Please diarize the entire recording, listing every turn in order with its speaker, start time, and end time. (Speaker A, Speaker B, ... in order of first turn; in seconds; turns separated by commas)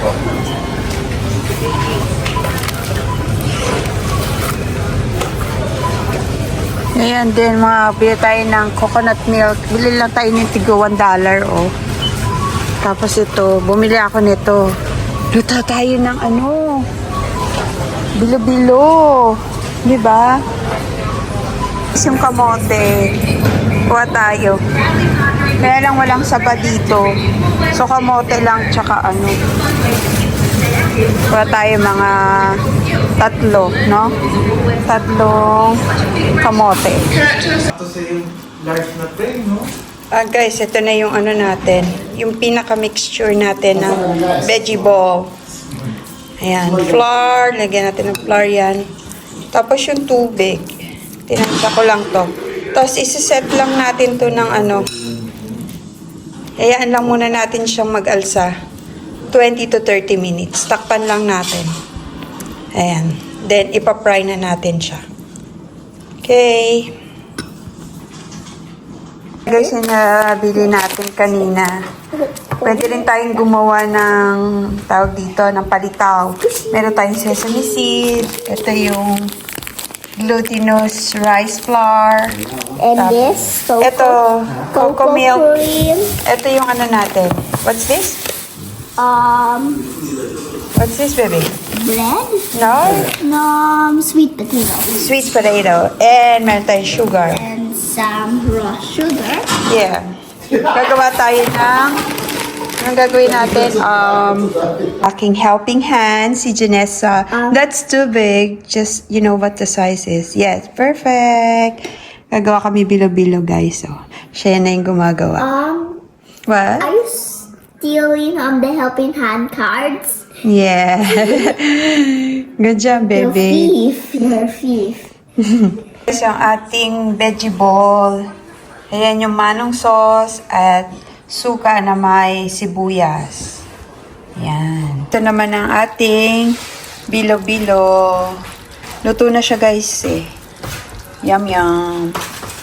Speaker A: 7.0-11.7, Speaker A: 12.8-14.7, Speaker A: 15.3-16.9, Speaker A: 18.2-20.4, Speaker A: 21.9-23.1, Speaker A: 23.9-24.6, Speaker A: 25.6-27.2, Speaker A: 27.7-29.4, Speaker A: 31.3-32.6, Speaker A: 33.2-34.1, Speaker A: 34.9-35.8, Speaker A: 36.4-37.1, Speaker B: 37.7-39.7, Speaker A: 40.1-45.3, Speaker A: 46.4-48.9, Speaker A: 49.5-50.7, Speaker A: 51.3-55.0, Speaker A: 56.6-58.5, Speaker A: 59.3-61.7, Speaker A: 62.8-65.0, Speaker A: 66.2-66.9, Speaker A: 69.5-71.8, Speaker C: 72.1-73.3, Speaker A: 72.6-79.3, Speaker C: 76.4-78.9, Speaker A: 80.2-82.4, Speaker C: 82.8-84.2, Speaker A: 83.0-85.5, Speaker C: 84.7-86.2, Speaker A: 86.2-88.2, Speaker C: 89.0-89.9, Speaker A: 90.8-91.6, Speaker C: 91.7-95.0, Speaker A: 92.5-93.1, Speaker A: 95.0-97.4, Speaker C: 97.2-99.5, Speaker A: 99.7-102.0, Speaker A: 102.8-115.5, Speaker C: 107.3-107.6, Speaker C: 115.4-116.0, Speaker A: 116.5-116.9, Speaker C: 116.8-120.3, Speaker A: 120.4-123.7, Speaker C: 123.2-125.1, Speaker A: 125.4-128.3, Speaker A: 128.9-133.7, Speaker A: 134.4-138.4, Speaker A: 139.0-140.3, Speaker A: 141.2-142.2